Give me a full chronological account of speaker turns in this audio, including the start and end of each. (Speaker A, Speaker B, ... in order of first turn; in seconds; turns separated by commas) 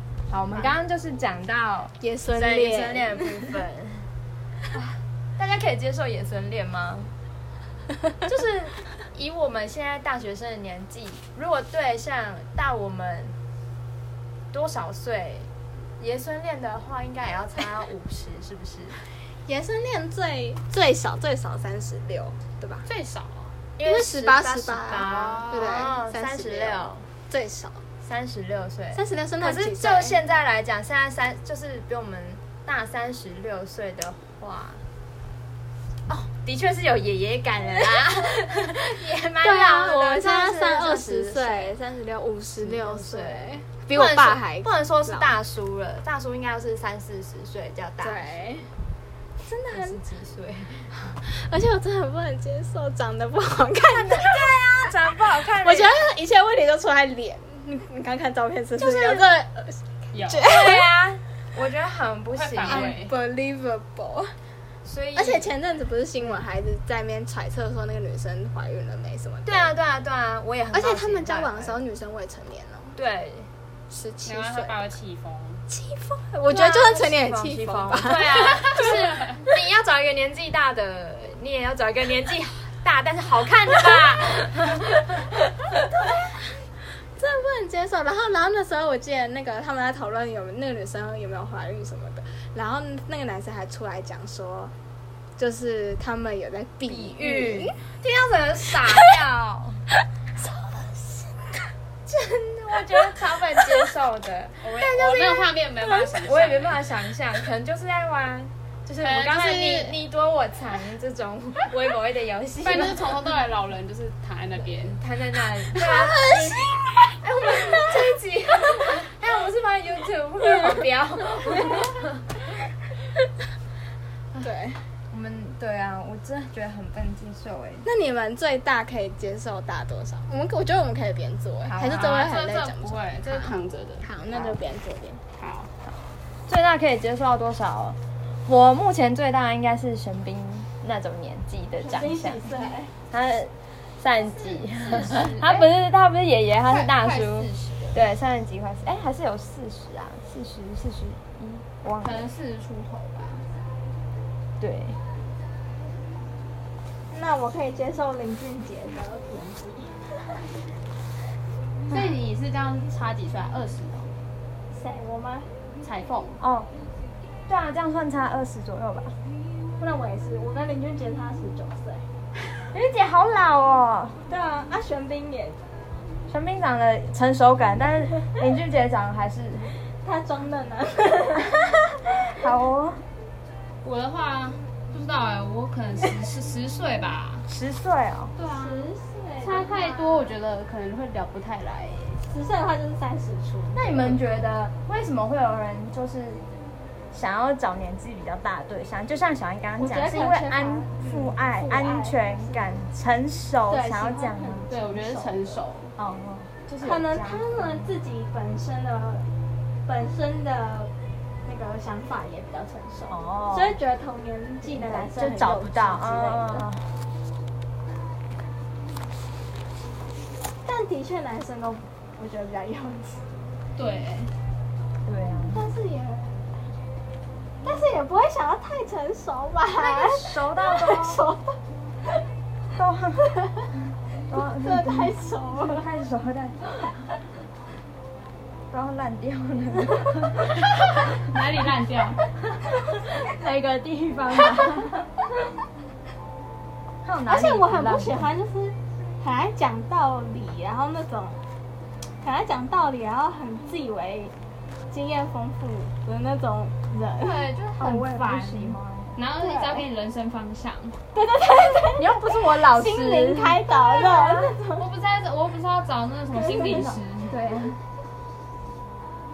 Speaker A: 0.3-4.1, Speaker B: 2.0-3.5, Speaker A: 4.7-7.1, Speaker A: 8.2-13.3, Speaker A: 14.5-19.0, Speaker B: 19.4-22.9, Speaker C: 22.9-23.6, Speaker A: 23.8-27.1, Speaker B: 23.8-27.8, Speaker C: 24.9-25.6, Speaker A: 28.0-34.8, Speaker B: 28.9-30.2, Speaker A: 36.1-41.8, Speaker B: 39.4-45.3, Speaker A: 42.6-48.3, Speaker B: 48.0-48.7, Speaker B: 49.5-50.0, Speaker A: 49.7-51.2, Speaker B: 51.2-60.9, Speaker A: 53.8-55.9, Speaker A: 58.8-59.2, Speaker C: 60.1-60.5, Speaker A: 60.4-63.0, Speaker C: 62.3-63.1, Speaker B: 62.7-64.3, Speaker A: 64.8-65.5, Speaker B: 65.2-69.7, Speaker A: 69.5-71.8, Speaker B: 70.7-72.9, Speaker A: 73.0-73.5, Speaker B: 73.9-74.8, Speaker C: 74.2-75.6, Speaker B: 75.7-78.9, Speaker A: 76.5-85.3, Speaker C: 78.4-79.4, Speaker B: 85.8-86.4, Speaker B: 87.2-94.7, Speaker B: 95.4-97.8, Speaker A: 96.8-99.8, Speaker B: 100.4-101.6, Speaker A: 102.1-104.9, Speaker C: 104.6-106.8, Speaker B: 105.0-105.4, Speaker A: 106.2-113.3, Speaker C: 109.0-110.0, Speaker C: 112.6-115.0, Speaker A: 115.0-122.1, Speaker B: 115.7-117.8, Speaker B: 120.4-120.7, Speaker B: 121.5-121.9, Speaker B: 124.4-124.8, Speaker A: 125.1-127.8, Speaker B: 127.8-135.2, Speaker A: 131.6-132.1, Speaker C: 131.8-134.1, Speaker C: 135.4-135.7, Speaker A: 136.5-142.4, Speaker B: 141.8-142.9, Speaker A: 143.1-152.3, Speaker C: 144.8-145.6, Speaker C: 146.6-148.0, Speaker C: 152.0-153.4, Speaker A: 154.6-155.0, Speaker B: 157.1-160.0, Speaker C: 161.9-164.1, Speaker B: 164.7-165.5, Speaker C: 165.8-166.4, Speaker A: 166.4-166.7, Speaker A: 167.5-169.2, Speaker B: 169.8-172.0, Speaker A: 172.6-174.2, Speaker B: 174.3-175.6, Speaker A: 176.3-179.7, Speaker B: 179.8-181.8, Speaker A: 182.3-183.0, Speaker C: 183.8-187.4, Speaker A: 187.5-188.3, Speaker C: 188.3-188.8, Speaker B: 188.4-190.3, Speaker C: 189.4-192.2, Speaker B: 192.3-194.2, Speaker A: 193.7-196.4, Speaker A: 197.1-204.7, Speaker B: 199.8-202.6, Speaker B: 203.7-205.5, Speaker C: 204.7-205.9, Speaker A: 206.0-207.9, Speaker B: 206.8-209.3, Speaker B: 209.8-210.9, Speaker B: 211.4-216.7, Speaker A: 213.1-213.8, Speaker A: 214.6-216.9, Speaker B: 220.6-223.2, Speaker C: 223.8-224.3, Speaker A: 225.0-225.6, Speaker B: 225.5-226.4, Speaker B: 227.6-231.6, Speaker A: 229.8-231.2, Speaker A: 232.8-233.3, Speaker B: 233.3-233.6, Speaker A: 234.3-236.6, Speaker B: 234.6-235.8, Speaker A: 238.7-240.6, Speaker C: 241.0-242.2, Speaker A: 242.7-245.1, Speaker A: 247.0-248.2, Speaker B: 247.3-251.4, Speaker B: 252.2-254.3, Speaker B: 254.9-257.4, Speaker C: 257.2-261.0, Speaker A: 257.8-259.8, Speaker B: 261.1-264.8, Speaker A: 262.0-264.5, Speaker C: 262.2-262.8, Speaker C: 264.8-267.4, Speaker B: 266.4-266.7, Speaker A: 266.5-267.8